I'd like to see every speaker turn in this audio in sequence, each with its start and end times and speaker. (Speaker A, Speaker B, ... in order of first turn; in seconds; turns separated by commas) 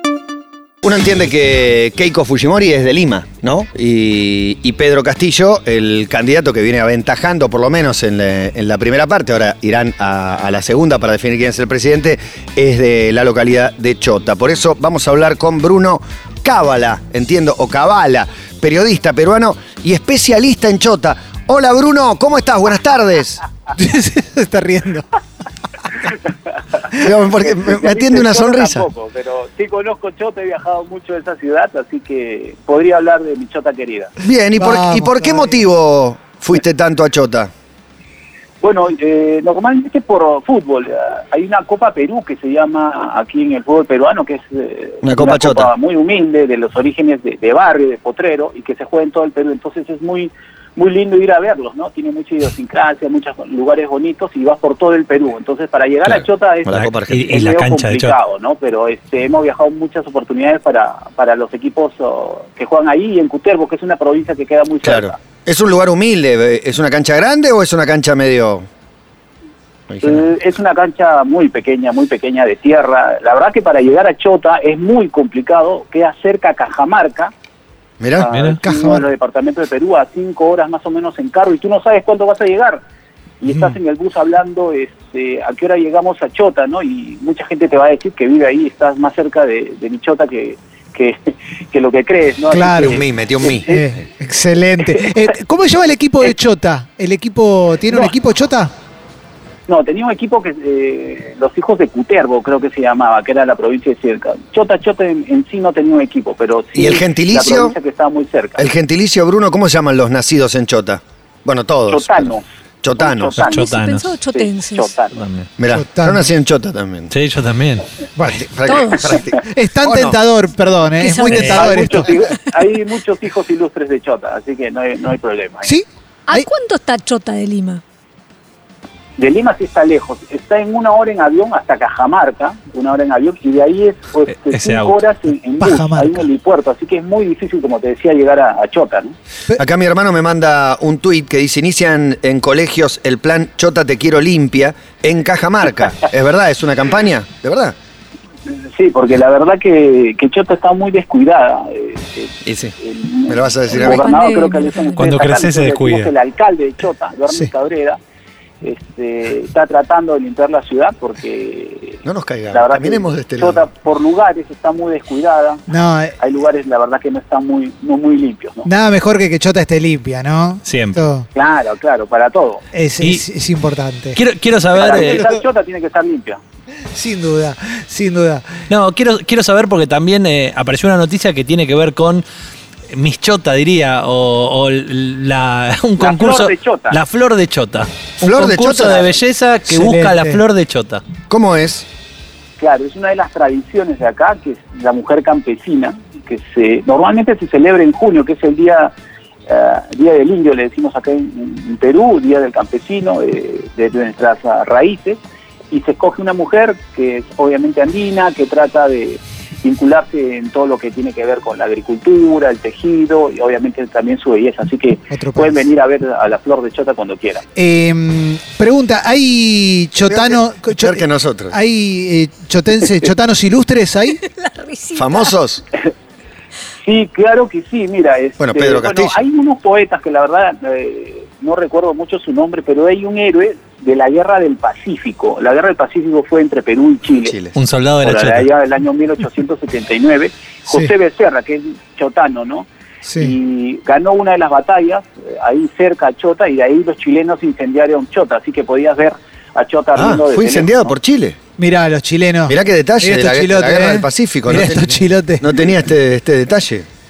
Speaker A: 0.8-23.4, Speaker B: 23.7-25.0, Speaker A: 27.0-28.9, Speaker C: 27.4-34.1, Speaker A: 34.2-37.5, Speaker B: 34.6-35.6, Speaker C: 38.6-65.2, Speaker A: 45.0-45.7, Speaker D: 56.0-58.2, Speaker A: 56.6-57.3, Speaker A: 64.8-68.7, Speaker A: 69.9-70.2, Speaker C: 70.0-77.3, Speaker A: 78.0-78.3, Speaker C: 78.2-82.8, Speaker D: 78.3-78.6, Speaker B: 78.6-79.0, Speaker C: 83.4-93.8, Speaker B: 92.5-93.0, Speaker A: 92.8-93.7, Speaker B: 93.7-98.7, Speaker C: 99.7-108.7, Speaker A: 106.7-107.7, Speaker A: 108.6-113.3, Speaker C: 111.9-112.4, Speaker C: 113.0-113.7, Speaker D: 113.4-114.1, Speaker E: 113.4-114.9, Speaker C: 114.3-115.2, Speaker D: 115.1-115.5, Speaker A: 115.6-117.1, Speaker B: 115.7-116.3, Speaker D: 117.1-117.9, Speaker B: 118.2-118.5, Speaker A: 118.2-120.2, Speaker E: 118.6-119.2, Speaker B: 119.4-122.1, Speaker E: 121.0-122.5, Speaker C: 121.3-125.7, Speaker D: 121.3-121.7, Speaker B: 125.6-126.5, Speaker E: 126.3-127.8, Speaker C: 129.2-139.1, Speaker D: 134.4-135.0, Speaker B: 135.6-136.2, Speaker A: 139.6-147.7, Speaker C: 148.5-158.0, Speaker A: 152.4-152.7, Speaker A: 153.3-154.2, Speaker E: 153.7-155.0, Speaker D: 154.9-156.1, Speaker C: 158.6-165.7, Speaker A: 162.0-163.7, Speaker B: 165.7-166.1, Speaker C: 166.2-168.7, Speaker B: 168.6-171.2, Speaker D: 170.6-171.0, Speaker C: 171.3-172.6, Speaker B: 172.7-174.2, Speaker D: 173.0-173.2, Speaker D: 174.1-175.2, Speaker C: 174.7-176.4, Speaker B: 174.8-175.4, Speaker B: 176.9-178.6, Speaker D: 178.7-182.2, Speaker D: 182.9-191.0, Speaker C: 186.0-187.0, Speaker A: 188.2-189.1, Speaker B: 189.7-190.4, Speaker A: 191.3-191.8, Speaker C: 192.6-198.9, Speaker C: 199.5-217.4, Speaker B: 215.1-215.6, Speaker B: 217.6-224.2, Speaker A: 220.1-221.6, Speaker E: 224.1-225.3, Speaker A: 224.9-225.6, Speaker C: 226.8-237.3, Speaker A: 228.4-229.2, Speaker A: 237.2-237.6, Speaker D: 237.5-238.5, Speaker C: 238.0-242.7, Speaker B: 243.1-243.3, Speaker C: 243.2-250.9, Speaker A: 249.9-251.4, Speaker B: 251.6-255.4, Speaker A: 252.5-256.9